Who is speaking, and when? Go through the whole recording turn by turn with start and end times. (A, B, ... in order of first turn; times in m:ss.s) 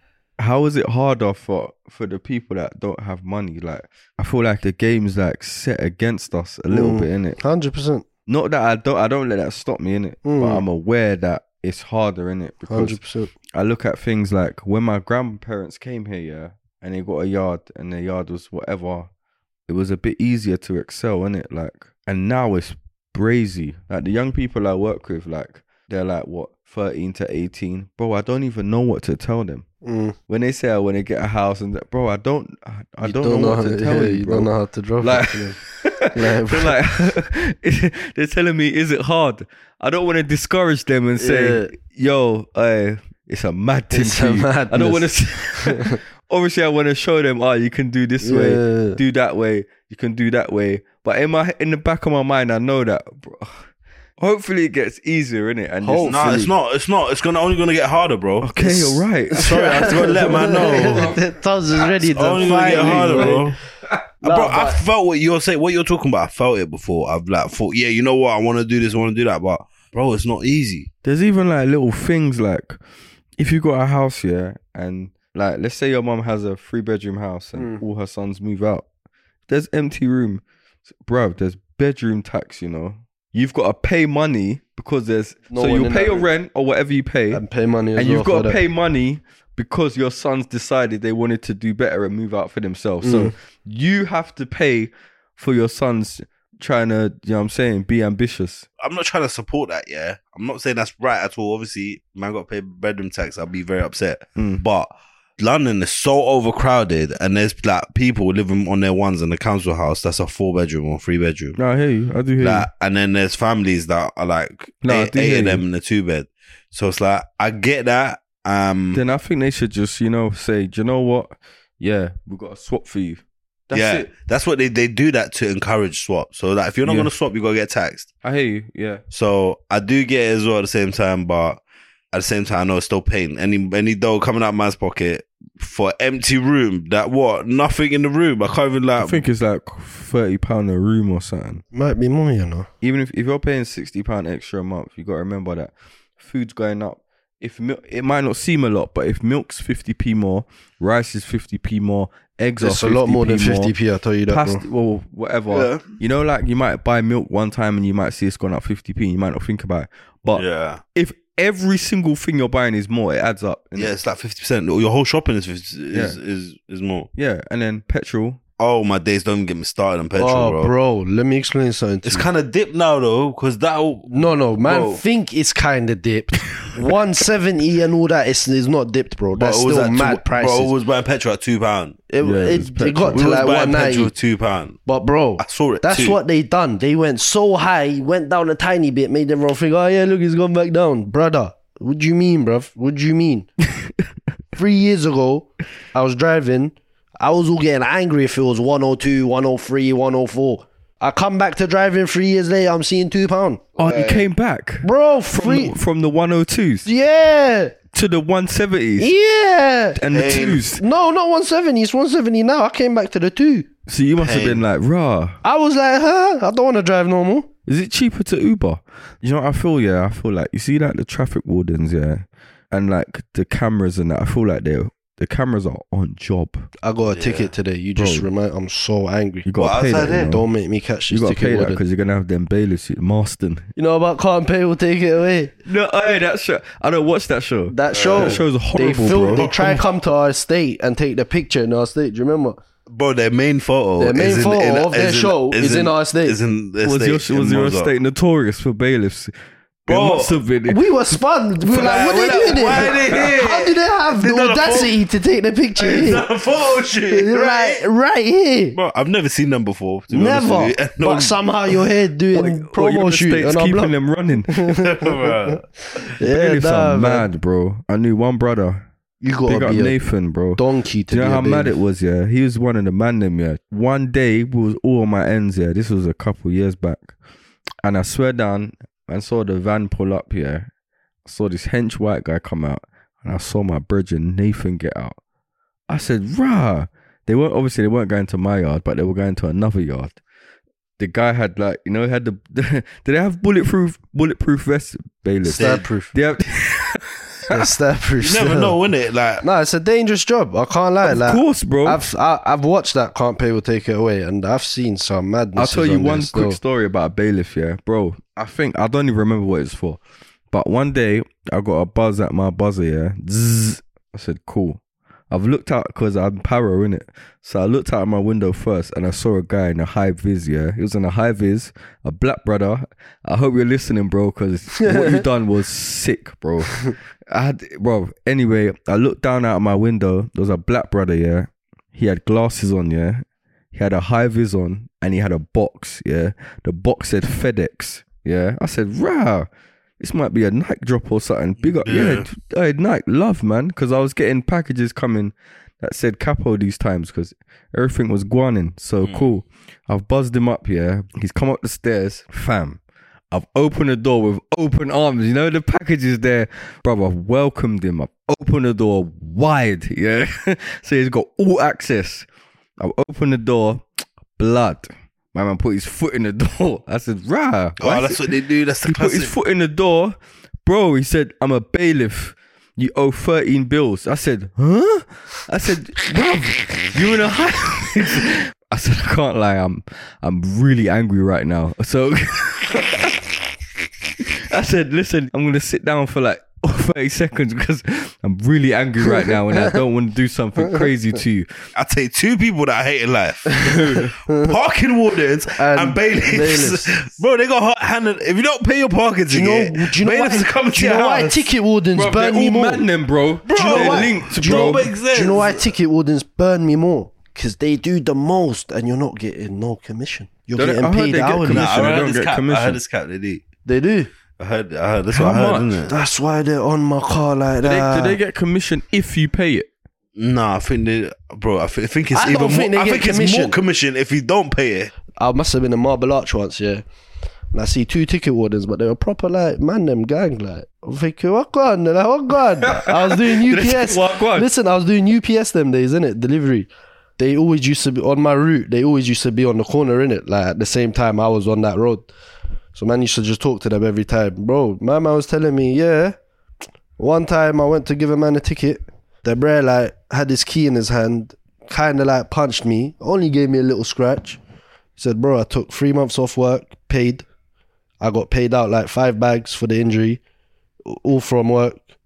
0:00.4-0:07.4 A
0:06.7-0:08.0 B
0:08.3-0:13.0 A
0:10.2-0:10.6 B
0:12.7-0:13.3 B
0:13.5-0:19.1 A
0:19.7-0:29.6 A
0:29.8-0:30.2 B
0:30.3-0:34.5 A
0:33.0-0:35.6 B
0:35.0-0:53.6 A
0:36.1-0:36.8 B
0:41.2-0:41.7 B
0:43.9-0:46.0 B
0:48.2-0:49.0 B
0:54.2-0:56.4 A
0:55.8-0:56.5 B
0:56.0-0:58.5 C
0:58.4-1:01.2 A
0:58.6-1:03.5 B
0:59.4-1:01.1 C
1:02.0-1:03.6 C
1:02.3-1:03.5 A
1:04.2-1:04.8 B
1:04.2-1:10.9 C
1:11.0-1:12.8 A
1:13.4-1:18.8 A
1:17.6-1:17.8 B
1:19.5-1:20.4 A
1:21.0-1:27.4 A
1:25.5-1:26.3 B
1:27.3-1:28.6 B
1:28.0-1:38.6 A
1:33.0-1:33.3 B
1:38.8-1:51.6 C
1:44.4-1:44.6 A
1:51.6-1:52.7 A
1:52.4-1:59.0 C
1:54.8-1:55.6 A
1:58.9-2:04.1 A
2:03.7-2:08.1 C
2:06.8-2:07.1 A
2:08.2-2:09.0 A
2:09.1-2:11.6 C
2:12.1-2:19.2 C
2:19.0-2:21.6 A
2:21.7-2:22.7 B
2:22.8-2:33.7 A
2:32.6-2:34.6 B
2:34.3-2:43.9 A
2:35.5-2:35.9 C
2:40.3-2:40.8 C
2:43.8-2:47.1 C
2:45.9-2:46.2 A
2:47.1-2:48.4 A
2:48.6-2:50.7 C
2:50.2-2:52.3 B
2:52.0-2:54.1 C
2:54.1-3:00.7 B
2:54.6-2:55.0 C
2:59.4-3:02.0 C
3:02.1-3:04.1 B
3:02.2-3:03.3 A
3:03.1-3:04.8 C
3:04.8-3:13.5 B
3:05.4-3:06.2 C
3:14.6-3:24.1 B
3:23.8-3:26.9 A
3:24.8-3:25.8 B
3:26.8-3:27.8 B
3:27.9-3:29.1 A
3:29.0-3:33.7 B
3:30.0-3:30.8 A
3:30.1-3:30.6 C
3:33.9-3:35.4 A
3:34.2-3:34.6 C
3:35.4-3:37.5 B
3:37.6-3:46.7 A
3:46.8-3:49.5 B
3:47.0-3:47.5 C
3:48.0-3:48.3 A
3:49.5-3:50.4 A
3:49.6-3:50.4 C
3:50.0-3:51.8 B
3:51.1-3:53.7 A
3:53.8-3:55.5 B
3:55.6-3:59.5 A
3:57.7-4:02.6 B
3:57.9-3:58.4 C
3:59.3-3:59.8 C
4:02.9-4:07.9 C
4:04.0-4:06.4 B
4:06.8-4:09.3 A
4:09.9-4:10.8 A
4:09.9-4:10.4 C
4:10.7-4:16.3 B
4:11.7-4:14.9 C
4:12.7-4:13.2 A
4:15.8-4:17.8 C
4:17.1-4:18.8 B
4:18.7-4:21.8 C
4:20.1-4:23.9 B
4:22.3-4:24.8 A
4:24.5-4:25.6 B
4:24.7-4:25.6 C
4:26.2-4:27.3 B
4:26.2-4:28.8 A
4:29.2-4:30.0 B
4:29.5-4:37.1 A
4:30.6-4:31.8 B
4:37.8-4:40.7 A
4:41.2-4:45.2 A
4:45.9-4:50.2 A
4:51.0-4:57.7 A
4:55.5-4:55.9 C
4:55.5-4:56.1 B
4:57.5-4:58.8 B
4:58.2-4:59.4 C
4:59.4-5:06.6 B
5:01.0-5:02.0 A
5:05.6-5:10.0 A
5:10.5-5:14.8 A
5:15.3-5:39.5 A
5:24.8-5:25.3 B
5:40.0-5:52.8 A
5:41.6-5:42.3 C
5:49.0-5:49.3 C
5:53.3-6:02.3 A
6:02.8-6:03.8 A
6:04.4-6:08.3 A
6:07.8-6:09.3 C
6:08.8-6:23.2 A
6:24.2-6:31.6 A
6:29.1-6:29.8 B
6:31.8-6:41.5 C
6:33.6-6:34.1 A
6:34.3-6:34.6 B
6:35.6-6:36.9 B
6:39.3-6:42.9 B
6:42.0-6:44.9 A
6:43.4-6:45.7 C
6:43.5-6:51.8 B
6:50.6-6:52.8 A
6:51.5-6:53.4 C
6:53.6-6:54.1 B
6:54.4-6:55.9 C
6:55.1-6:55.7 A
6:55.9-6:58.2 B
6:57.6-6:59.7 A
7:00.2-7:04.9 C
7:02.1-7:03.6 B
7:05.1-7:06.8 B
7:07.5-7:22.1 B
7:12.6-7:14.5 A
7:22.7-7:26.2 B
7:27.0-7:34.4 B
7:35.0-7:37.3 B
7:38.0-7:40.2 B
7:40.8-7:41.8 B